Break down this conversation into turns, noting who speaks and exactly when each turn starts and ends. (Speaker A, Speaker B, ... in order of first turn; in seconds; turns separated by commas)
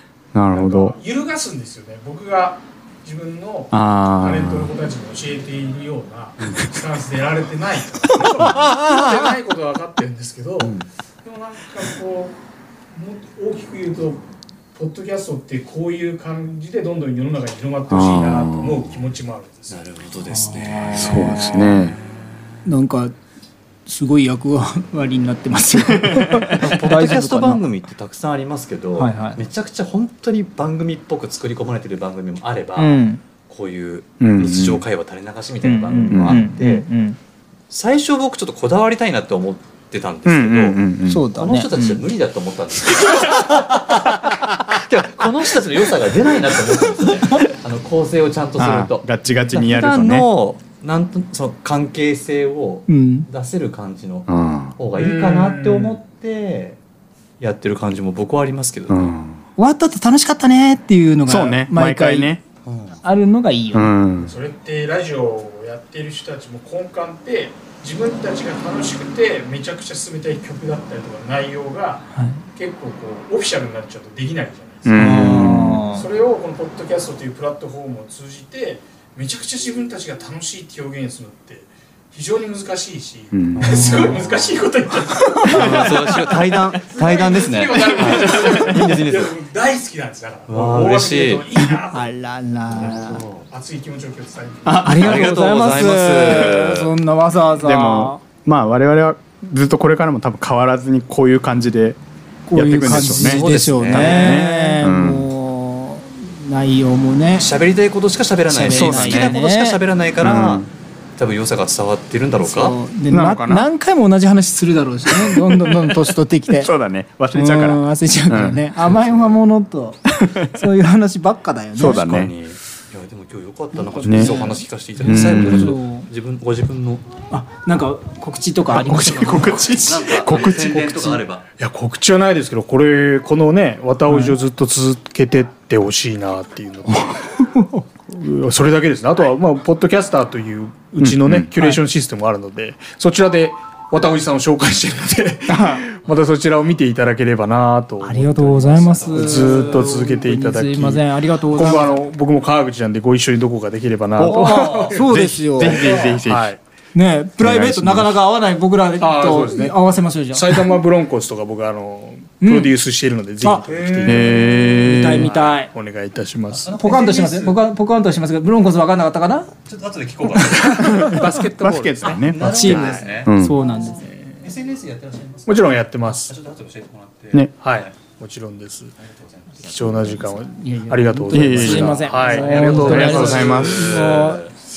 Speaker A: 0.3-0.9, Speaker B: 0.5-12.4, Speaker A: 3.7-4.7, Speaker C: 8.4-8.9, Speaker B: 12.9-14.2, Speaker B: 14.7-19.9, Speaker A: 17.9-18.9, Speaker D: 19.7-21.9, Speaker C: 20.3-21.8, Speaker A: 20.9-22.0, Speaker C: 22.6-23.1, Speaker C: 23.9-27.6, Speaker A: 25.8-26.6, Speaker D: 26.5-36.9, Speaker C: 29.0-29.4, Speaker C: 32.8-33.2, Speaker A: 34.2-34.8, Speaker C: 35.6-37.2, Speaker A: 36.1-36.5, Speaker D: 37.7-40.8, Speaker A: 40.2-41.3, Speaker C: 41.1-42.0, Speaker D: 41.3-56.8, Speaker A: 48.6-50.2, Speaker C: 52.9-53.3, Speaker A: 54.3-54.7, Speaker B: 54.9-56.0, Speaker D: 57.4-59.1, Speaker A: 58.9-59.4, Speaker C: 59.6-62.3, Speaker A: 61.3-62.4, Speaker D: 62.6-63.0, Speaker C: 63.0-63.9, Speaker A: 63.7-64.3, Speaker B: 64.2-92.1, Speaker C: 72.1-72.4, Speaker A: 74.8-75.8, Speaker C: 75.0-76.1, Speaker A: 83.3-83.9, Speaker D: 83.6-84.6, Speaker C: 83.6-84.2, Speaker C: 85.2-85.9, Speaker D: 85.5-89.4, Speaker D: 90.5-91.5, Speaker C: 91.9-93.2, Speaker D: 92.7-93.5, Speaker B: 93.5-94.9, Speaker A: 94.7-95.3, Speaker C: 94.8-98.2, Speaker D: 94.8-96.9, Speaker A: 97.6-102.0, Speaker C: 102.5-107.5, Speaker A: 102.5-105.3, Speaker D: 103.1-104.5, Speaker D: 107.4-110.7, Speaker C: 108.5-109.8, Speaker A: 108.7-109.3, Speaker A: 110.2-110.7, Speaker D: 111.2-112.8, Speaker C: 112.4-116.7, Speaker A: 113.1-113.7, Speaker A: 115.1-118.7, Speaker C: 117.3-122.2, Speaker A: 120.2-120.6, Speaker A: 121.8-122.3, Speaker D: 121.8-127.1, Speaker C: 124.0-126.1, Speaker A: 124.0-124.3, Speaker B: 124.2-124.5, Speaker A: 125.0-125.8, Speaker C: 127.3-129.7, Speaker A: 128.7-131.2, Speaker D: 129.8-131.4, Speaker B: 131.6-137.4, Speaker C: 134.1-134.3, Speaker C: 137.5-137.8, Speaker B: 138.1-155.1, Speaker A: 141.0-141.5, Speaker A: 145.5-145.8, Speaker C: 148.0-152.0, Speaker D: 148.9-149.9, Speaker A: 154.2-156.6, Speaker C: 154.2-156.0, Speaker D: 154.4-155.0, Speaker B: 155.6-156.6, Speaker C: 156.9-160.7, Speaker A: 157.4-158.2, Speaker B: 159.0-159.8, Speaker B: 160.3-166.7, Speaker C: 162.4-162.7, Speaker C: 163.4-163.7, Speaker D: 163.7-164.6, Speaker A: 164.1-165.3, Speaker C: 164.8-165.7, Speaker D: 165.2-165.6, Speaker D: 166.5-167.6, Speaker C: 166.7-169.5, Speaker D: 169.7-171.2, Speaker C: 170.4-171.1, Speaker B: 170.7-172.2, Speaker A: 171.6-173.6, Speaker D: 172.0-173.3, Speaker C: 172.4-174.3, Speaker D: 174.4-177.9, Speaker B: 175.5-176.3, Speaker B: 177.6-178.9, Speaker D: 179.0-179.7, Speaker B: 179.6-184.2, Speaker C: 179.9-184.4, Speaker A: 181.3-184.1, Speaker D: 181.9-184.5